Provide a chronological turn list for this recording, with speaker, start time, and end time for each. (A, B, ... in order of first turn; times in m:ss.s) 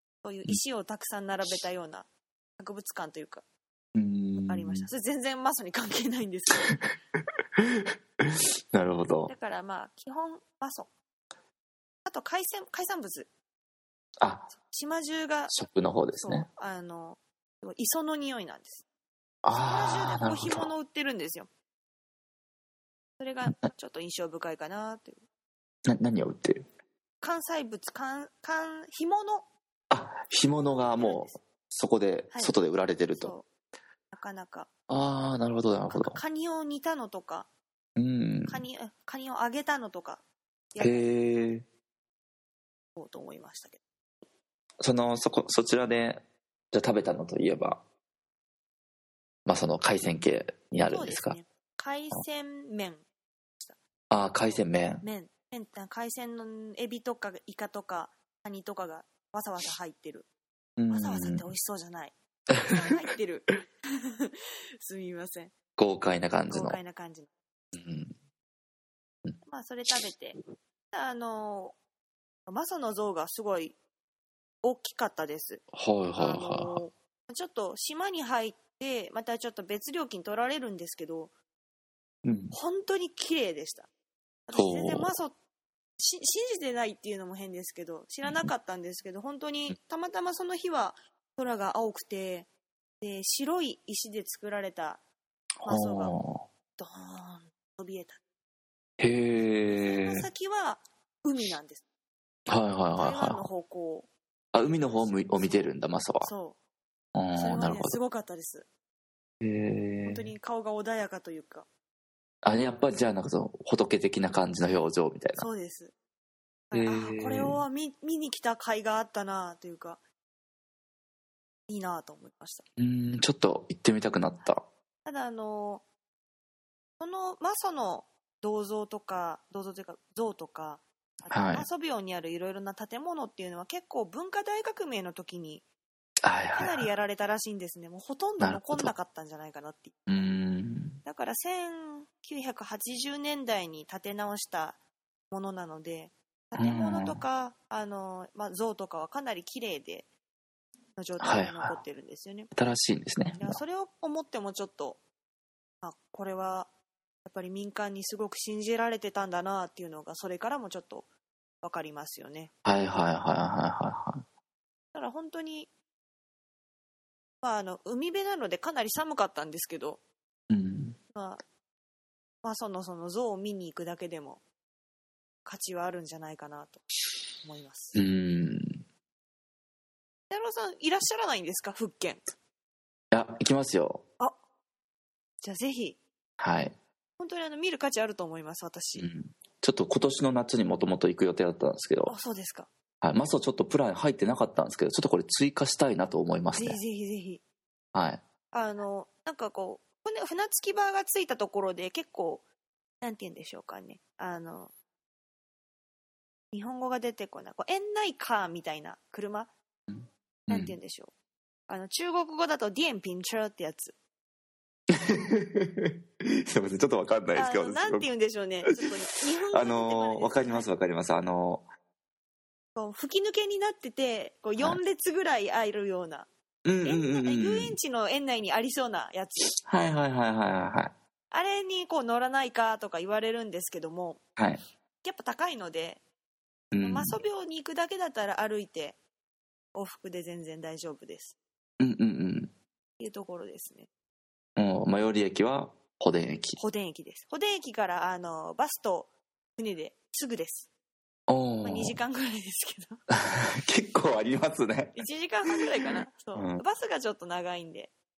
0:00.2-0:03.4 A
0:03.9-0:04.9 B
0:04.4-0:06.7 A
0:07.6-0:09.3 B
0:09.3-0:10.9 A
0:12.0-0:13.3 A
0:14.2-0:14.5 B
0:14.5-0:15.6 A
0:15.5-0:16.5 B
0:16.2-0:18.8 A
0:19.4-0:20.7 B
0:19.5-0:21.5 A
0:23.2-0:25.2 A
0:25.8-0:26.6 B
0:27.2-0:29.5 A
0:29.9-0:33.3 B
0:30.6-0:31.4 A
0:32.3-0:32.6 A
0:33.1-0:33.5 A
0:34.1-0:34.7 A
0:34.9-0:36.2 B
0:35.9-0:37.5 A
0:38.0-0:38.6 B
0:38.5-0:40.2 A
0:40.7-0:41.5 A
0:40.8-0:41.6 B
0:43.0-0:43.8 A
0:44.8-0:47.8 B
0:49.4-0:51.4 B
0:50.8-0:53.0 A
0:54.1-0:55.0 B
0:54.4-1:00.3 A
1:00.8-1:01.4 B
1:00.9-1:05.5 A
1:05.8-1:06.8 B
1:06.5-1:07.3 A
1:07.7-1:08.1 B
1:09.4-1:10.4 A
1:10.9-1:11.7 A
1:12.5-1:13.8 A
1:14.6-1:15.6 A
1:15.7-1:16.8 B
1:16.2-1:21.3 A
1:22.2-1:22.5 B
1:22.5-1:23.9 A
1:24.5-1:25.3 A
1:24.5-1:25.1 B
1:26.0-1:32.5 A
1:28.2-1:28.5 B
1:33.0-1:35.0 A
1:35.6-1:36.2 A
1:35.6-1:36.4 B
1:36.8-1:38.2 A
1:39.0-1:40.2 B
1:39.4-1:41.8 A
1:42.5-1:43.4 B
1:42.9-1:44.1 A
1:44.5-1:46.3 B
1:44.6-1:46.6 A
1:47.1-1:48.0 B
1:47.3-1:48.7 A
1:49.4-1:50.3 B
1:50.0-1:51.7 A
1:52.4-1:55.4 B
1:55.4-1:55.9 A
1:56.7-2:00.0 A
1:56.7-1:57.6 B
2:01.7-2:02.6 A
2:02.8-2:04.6 B
2:05.0-2:05.8 A
2:07.0-2:15.6 A
2:11.3-2:11.7 B
2:16.2-2:16.9 B
2:16.5-2:20.3 A
2:18.4-2:18.9 B
2:20.1-2:21.0 B
2:21.0-2:24.8 A
2:25.3-2:30.1 A
2:26.6-2:27.2 B
2:31.0-2:32.5 A
2:31.2-2:31.8 B
2:32.5-2:33.6 B
2:33.3-2:35.0 A
2:35.8-2:36.7 A
2:37.2-2:41.1 A
2:41.6-2:42.5 A
2:42.6-2:44.2 B
2:44.9-2:45.7 A
2:47.4-2:50.0 A
2:50.5-2:51.0 B
2:51.1-2:51.4 A
2:52.4-2:54.4 A
2:55.4-2:58.0 A
2:57.9-2:58.8 B
3:00.3-3:02.3 A
3:03.1-3:04.0 B
3:05.4-3:06.0 A
3:06.4-3:06.8 B
3:07.2-3:09.1 A
3:09.0-3:12.2 B
3:12.1-3:12.7 A
3:13.0-3:16.8 B
3:16.5-3:17.4 A
3:17.9-3:18.2 B
3:18.5-3:22.4 A
3:23.0-3:24.7 A
3:26.5-3:29.5 A
3:29.9-3:30.7 B
3:30.5-3:31.1 A
3:31.7-3:34.0 A
3:34.9-3:38.1 B
3:37.3-3:40.7 A
3:39.5-3:41.7 B
3:42.8-3:46.3 A
3:46.6-3:47.8 B
3:46.8-3:49.5 A
3:49.6-3:50.9 B
3:51.3-3:54.2 A
3:55.0-3:56.0 A
3:56.7-3:57.2 B
3:56.8-3:59.0 A
3:59.7-4:01.4 A
4:01.8-4:02.5 B
4:03.0-4:03.9 A
4:04.6-4:06.6 B
4:06.6-4:10.7 A
4:11.3-4:12.0 B
4:11.6-4:13.0 A
4:13.1-4:15.0 B
4:14.9-4:17.9 A
4:15.8-4:16.6 B